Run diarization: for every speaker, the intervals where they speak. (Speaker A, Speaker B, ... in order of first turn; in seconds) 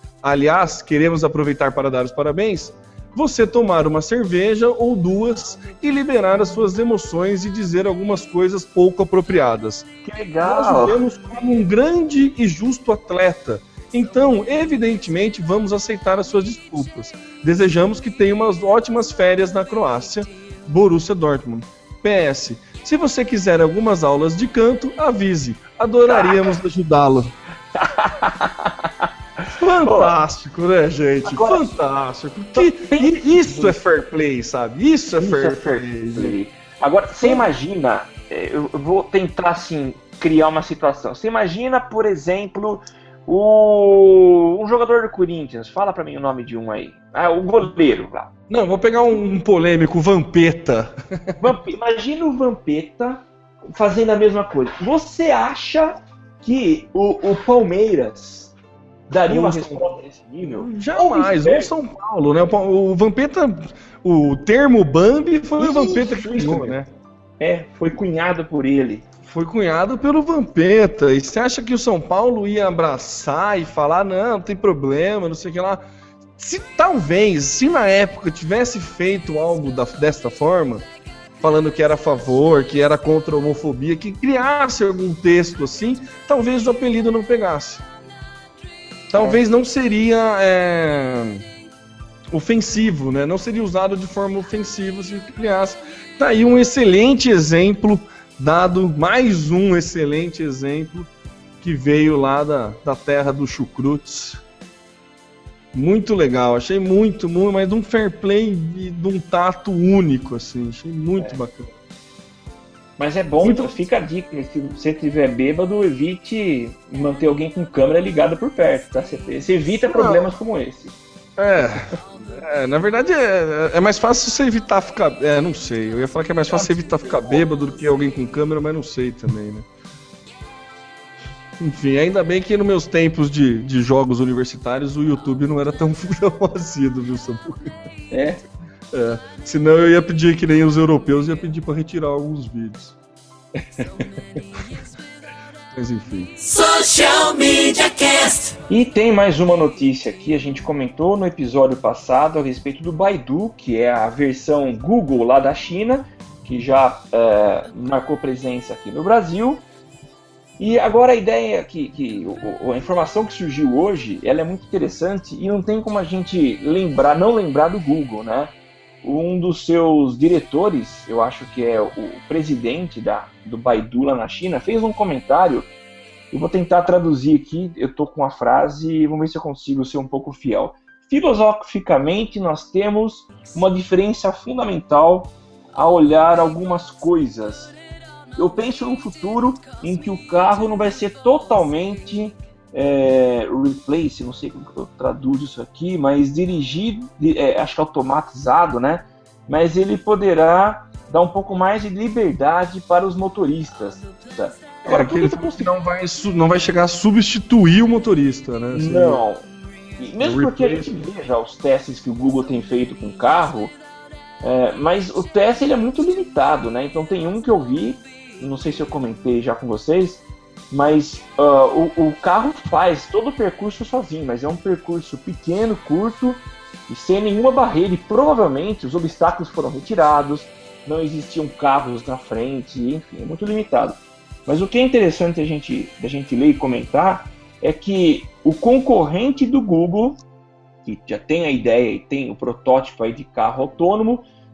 Speaker A: 0.2-9.8, 10.4-27.3, 29.6-36.4, 48.5-51.5, 59.3-59.8, 60.5-66.9, 69.2-75.8, 76.4-80.8, 81.4-87.8, 89.1-91.4, 92.3-101.1, 101.6-104.4, 105.7-111.7, 113.4-113.7, 119.9-120.3, 121.4-129.7, 131.6-137.7, 138.9-142.9, 145.7-146.3, 204.8-209.2, 210.2-211.0
Speaker B: 10.0-11.0, 26.1-26.5, 27.8-28.9, 29.8-30.1, 31.2-31.6, 32.5-33.8, 35.2-48.3, 51.4-58.5, 59.1-61.7, 65.6-66.8, 67.4-69.0, 89.1-89.4, 113.0-121.0, 126.5-127.4, 138.1-138.4, 148.7-159.6, 160.6-175.7, 176.3-187.7, 188.4-205.7, 208.7-209.5, 210.0-213.8, 214.4-240.2, 240.8-244.2
Speaker C: 146.4-148.5